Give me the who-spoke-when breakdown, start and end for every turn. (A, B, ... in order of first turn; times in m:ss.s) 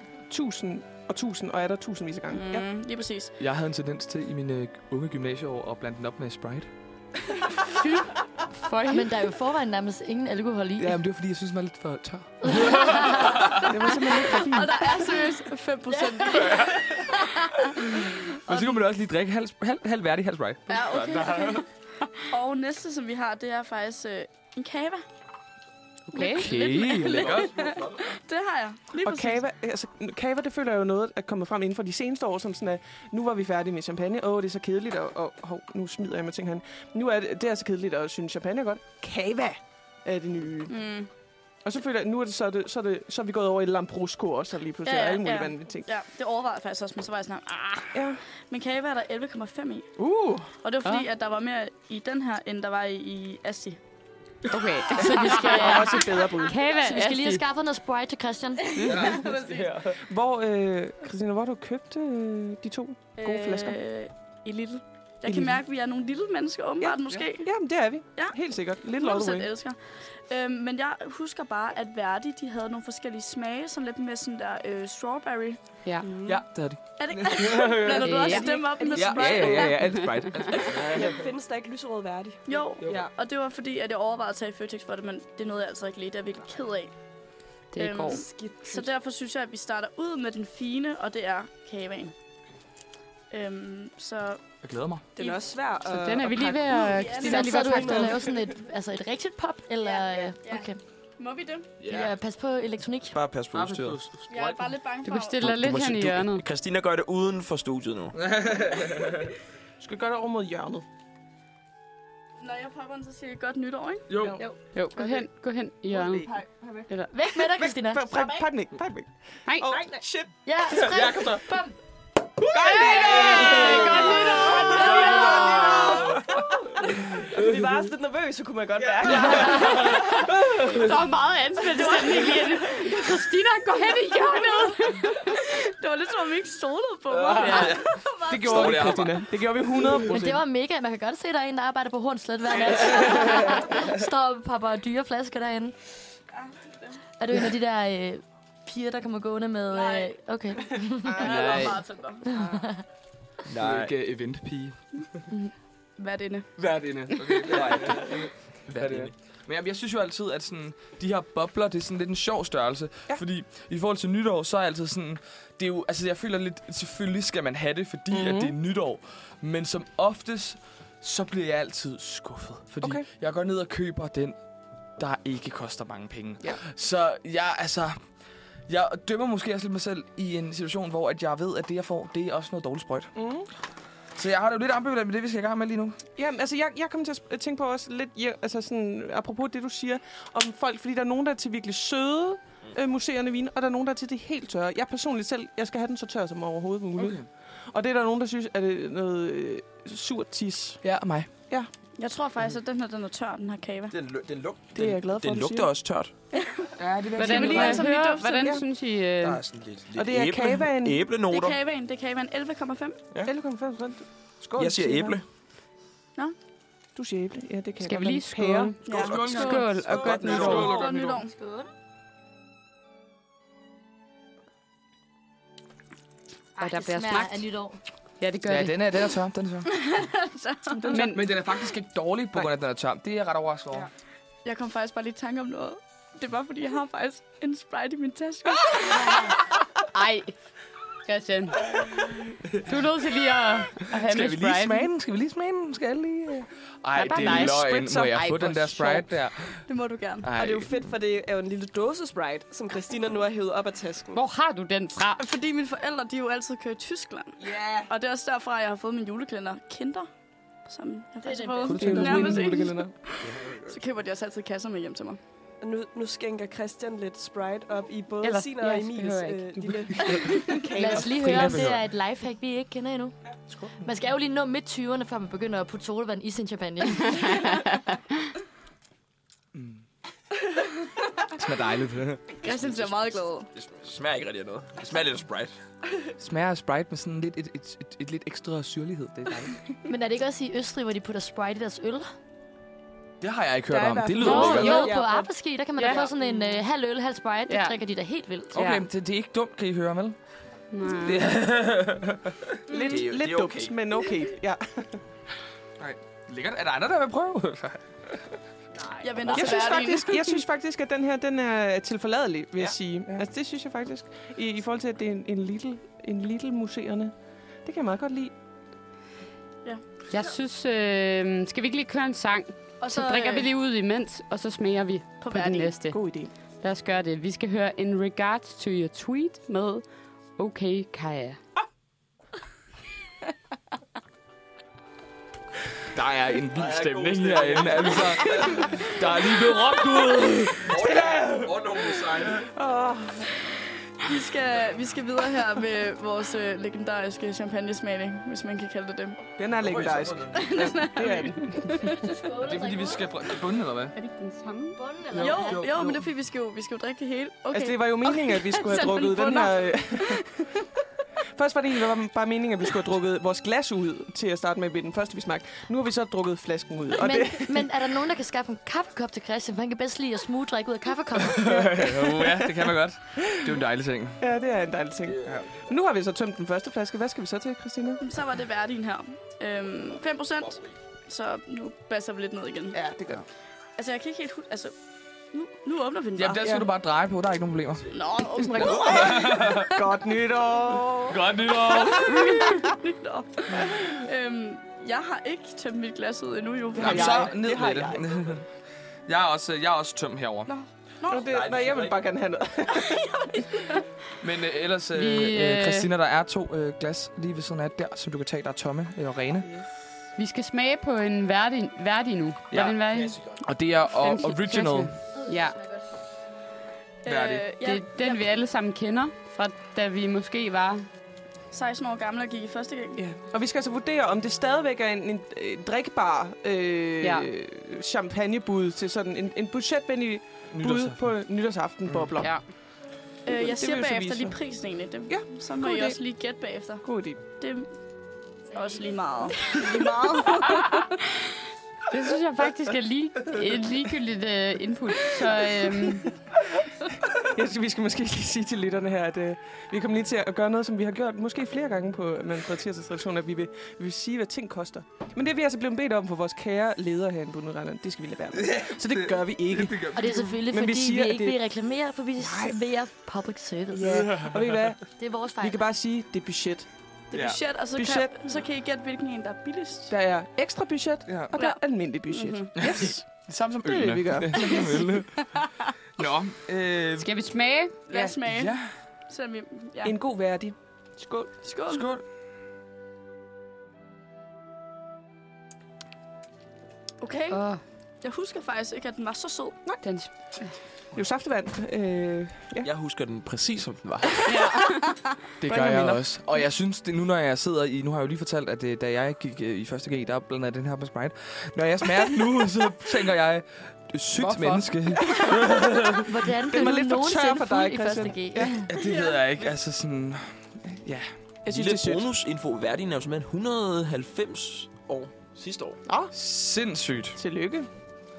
0:00.3-0:02.7 A
0:02.3-0:03.3 B
0:03.4-0:06.7 C
0:07.8-0:09.1 D
0:08.9-0:11.0 E
0:10.8-0:13.6 C
0:12.4-0:13.6 E
0:13.6-0:15.0 A
0:14.3-0:17.8 B
0:16.0-0:16.5 E
0:16.4-0:17.1 C
0:18.0-0:21.6 C
0:20.7-0:21.6 B
0:22.3-0:25.0 B
0:26.1-0:26.8 D
0:26.1-0:27.7 C
0:26.2-0:29.4 B
0:27.2-0:27.8 F
0:29.0-0:40.8 A
0:40.7-0:41.1 B
0:41.6-0:45.9 A
0:44.8-0:48.0 B
0:47.9-0:48.2 A
0:48.5-0:49.9 B
0:50.0-0:50.5 A
0:50.6-0:53.8 B
0:54.5-0:57.4 D
0:54.9-0:56.6 A
0:55.3-0:55.9 E
0:56.7-0:58.8 E
0:58.8-1:03.8 A
0:58.8-1:00.0 C
1:03.2-1:07.5 B
1:05.2-1:05.6 A
1:06.8-1:09.5 A
1:08.9-1:15.6 B
1:16.1-1:16.4 G
1:16.2-1:18.3 C
1:17.0-1:20.7 B
1:18.0-1:18.4 D
1:18.4-1:19.8 G
1:18.9-1:21.2 C
1:20.5-1:23.1 G
1:22.5-1:26.9 B
1:27.7-1:28.2 D
1:27.8-1:32.1 B
1:28.2-1:28.9 G
1:33.3-1:34.4 B
1:34.6-1:35.1 C
1:35.1-1:38.2 G
1:35.9-1:38.2 D
1:36.8-1:37.5 B
1:37.2-1:40.8 E
1:39.8-1:40.7 B
1:41.2-1:41.7 B
1:41.8-1:42.1 C
1:41.8-1:43.2 E
1:43.1-1:44.0 F
1:43.2-1:44.7 C
1:44.3-1:45.4 B
1:45.0-1:46.4 D
1:45.4-1:48.7 F
1:48.1-1:49.2 C
1:49.8-1:50.8 A
1:52.4-1:54.1 B
1:54.1-1:54.4 C
1:54.7-1:56.3 D
1:56.0-1:56.8 G
1:57.1-1:58.0 E
1:57.6-2:01.4 A
1:58.1-1:58.5 B
1:59.5-1:59.7 D
2:00.4-2:01.7 E
2:02.5-2:06.0 A
2:02.5-2:10.9 G
2:02.8-2:06.1 B
2:10.8-2:15.2 D
2:14.9-2:18.9 B
2:17.1-2:19.2 C
2:17.4-2:17.8 D
2:18.2-2:20.4 A
2:20.0-2:25.8 E
2:26.4-2:27.0 B
2:27.2-2:31.3 E
2:29.7-2:30.2 B
2:30.7-2:32.2 B
2:31.2-2:31.8 C
2:31.2-2:31.6 A
2:32.3-2:32.8 E
2:33.5-2:34.0 F
2:33.6-2:35.0 C
2:35.3-2:36.5 B
2:36.6-2:54.3 C
2:37.4-2:39.1 F
2:48.1-2:48.6 A
2:52.8-2:53.1 A
2:55.0-2:58.0 C
2:58.7-3:03.1 C
3:03.2-3:03.5 A
3:04.2-3:06.0 C
3:06.2-3:20.8 A
3:17.0-3:17.3 C
3:20.8-3:21.3 C
3:22.0-3:23.9 B
3:23.9-3:25.6 F
3:24.7-3:25.8 A
3:24.8-3:26.1 C
3:26.8-3:27.8 C
3:27.1-3:29.4 D
3:27.2-3:28.6 A
3:27.6-3:28.5 B
3:29.2-3:31.6 F
3:29.9-3:31.0 A
3:31.3-3:33.0 B
3:33.2-3:35.2 A
3:34.6-3:35.2 F
3:37.0-3:39.1 A
3:37.8-3:40.8 D
3:38.8-3:41.3 B
3:38.9-3:41.2 C
3:39.9-3:40.7 F
3:41.2-3:41.7 E
3:46.6-3:47.8 E
3:46.6-3:47.5 D
3:48.2-3:48.8 D
3:48.5-3:49.9 C
3:49.7-3:50.8 B
3:50.7-3:51.3 A
3:50.9-3:51.2 D
3:50.9-3:53.9 C
3:54.4-3:59.1 B
3:59.9-4:00.3 D
4:01.0-4:01.7 D
4:02.6-4:04.9 D
4:03.8-4:09.6 C
4:06.9-4:09.0 D
4:07.2-4:08.3 A
4:09.7-4:10.3 B
4:10.2-4:10.8 C
4:10.3-4:14.2 G
4:14.1-4:15.2 D
4:15.2-4:20.1 B
4:17.4-4:17.8 G
4:20.6-4:25.2 B
4:21.4-4:21.6 G
4:21.6-4:22.8 C
4:21.6-4:22.9 A
4:23.2-4:23.7 F
4:25.6-4:31.4 G
4:28.2-4:29.8 D
4:30.7-4:33.2 E
4:30.9-4:31.8 C
4:31.2-4:31.5 D
4:33.8-4:37.5 E
4:37.1-4:37.8 D
4:39.5-4:39.8 C
4:41.3-4:42.4 C
4:42.4-4:43.5 B
4:42.4-4:43.0 F
4:43.5-4:45.5 F
4:46.2-4:49.5 C
4:49.8-4:52.1 E
4:53.2-4:54.9 C
4:53.7-4:55.3 G
4:54.2-4:58.6 E
4:54.5-4:54.9 D
4:55.8-4:56.1 D
4:55.8-4:56.1 G
4:57.5-4:57.8 D
4:58.5-5:00.2 C
4:58.6-4:58.9 D
5:00.7-5:01.3 D
5:00.9-5:02.5 C
5:02.7-5:05.0 A
5:02.7-5:03.0 B
5:02.8-5:04.0 F
5:05.8-5:08.2 C
5:09.0-5:10.4 B
5:09.3-5:17.1 A
5:17.6-5:18.3 A
5:20.1-5:26.0 D
5:22.8-5:23.5 B
5:25.2-5:25.7 B
5:25.9-5:26.3 A
5:26.6-5:29.8 D
5:30.4-5:31.4 D
5:35.9-5:40.7 C
5:36.5-5:38.7 F
5:40.6-5:42.4 F
5:40.7-5:43.3 A
5:44.0-5:49.3 B
5:49.4-5:51.9 A
5:49.6-5:50.6 F
5:50.3-5:52.1 B
5:52.0-5:53.2 E
5:52.4-5:54.0 C
5:54.0-5:54.8 D
5:54.7-5:55.7 E
5:55.1-5:56.0 C
5:55.2-6:00.5 B
5:57.5-6:00.2 A
6:01.3-6:07.6 A
6:07.0-6:11.6 E
6:11.3-6:14.2 C
6:12.0-6:12.4 A
6:13.2-6:13.6 A
6:14.2-6:18.0 A
6:15.1-6:15.4 F
6:18.0-6:22.8 B
6:22.7-6:23.2 A
6:23.8-6:24.7 B
6:25.3-6:26.4 B
6:26.2-6:27.8 C
6:26.4-6:26.7 A
6:27.9-6:29.1 B
6:28.3-6:32.6 A
6:28.6-6:29.8 C
6:31.1-6:32.1 C
6:31.7-6:37.3 B
6:36.8-6:38.3 A
6:36.8-6:38.4 C
6:39.1-6:40.5 C
6:40.5-6:41.2 B
6:41.1-6:43.4 A
6:41.3-6:42.0 F
6:42.9-6:43.8 B
6:44.2-6:49.5 C
6:44.9-6:45.9 D
6:50.2-6:53.2 D
6:52.5-6:52.8 C
6:53.4-6:54.9 C
6:54.0-6:55.6 D
6:57.0-6:58.2 B
6:57.1-6:57.5 C
6:57.6-7:00.9 D
7:01.5-7:03.0 B
7:03.0-7:12.3 A
7:07.0-7:07.3 D
7:10.5-7:11.0 C
7:13.2-7:16.8 B
7:13.3-7:14.4 A
7:15.1-7:16.0 A
7:16.8-7:17.2 A
7:17.4-7:17.7 B
7:18.5-7:20.9 B
7:21.9-7:26.0 D
7:27.2-7:41.4 A
7:38.4-7:40.1 C
7:39.9-7:44.1 E
7:42.2-7:42.6 A
7:43.7-7:46.7 A
7:43.9-7:44.6 C
7:45.0-7:45.6 E
7:47.1-7:49.9 B
7:47.1-7:47.4 C
7:47.7-7:48.3 A
7:49.9-7:54.8 A
7:51.1-7:51.4 C
7:51.3-7:52.5 B
7:52.6-7:55.3 C
7:56.0-7:57.1 C
7:57.0-7:57.8 D
7:57.9-7:58.5 B
7:57.9-7:58.7 C
7:59.1-8:00.0 B
7:59.8-8:01.3 A
8:01.4-8:01.9 B
8:01.7-8:02.0 C
8:07.0-8:07.4 B
8:07.3-8:07.6 D
8:08.0-8:09.6 B
8:09.8-8:10.1 D
8:10.9-8:12.7 A
8:12.6-8:14.4 F
8:14.3-8:14.7 D
8:14.5-8:15.0 B
8:15.4-8:26.0 C
8:15.4-8:16.0 A
8:24.4-8:25.5 A
8:26.0-8:28.6 E
8:26.4-8:28.6 A
8:28.7-8:31.1 C
8:28.7-8:29.2 B
8:31.4-8:32.1 A
8:31.5-8:35.8 F
8:35.8-8:36.2 A
8:36.2-8:37.2 C
8:37.2-8:37.7 A